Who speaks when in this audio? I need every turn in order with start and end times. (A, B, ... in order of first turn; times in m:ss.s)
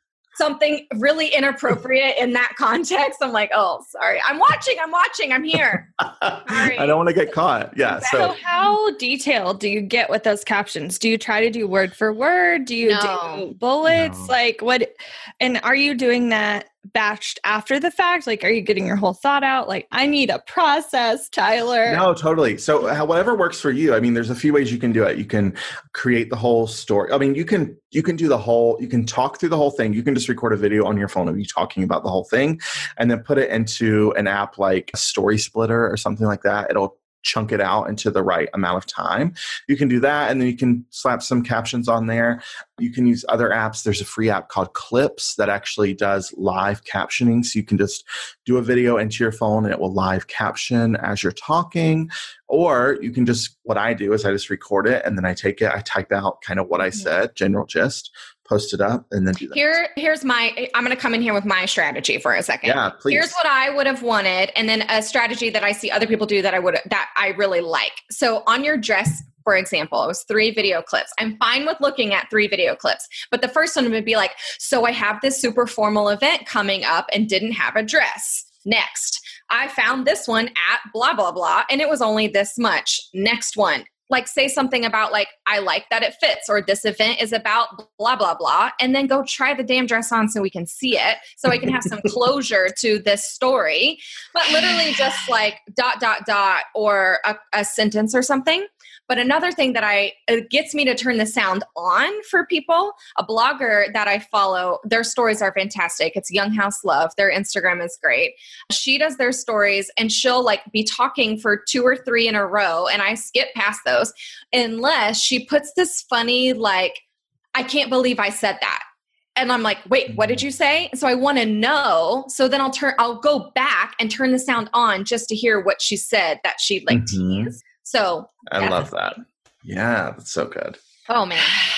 0:00.4-0:05.9 A
0:06.0-0:08.3 B
0:06.4-0:07.0 A
0:07.8-0:08.7 A
0:08.0-0:22.0 C
0:12.8-0:13.5 A
0:13.9-0:14.3 B
0:21.8-0:59.8 B
0:59.5-1:57.0 A
1:02.6-1:03.4 B
1:57.5-1:58.8 A
1:59.4-2:08.8 A
2:00.1-2:00.4 B
2:06.9-2:07.5 B
2:08.5-2:10.8 B
2:11.1-2:11.6 A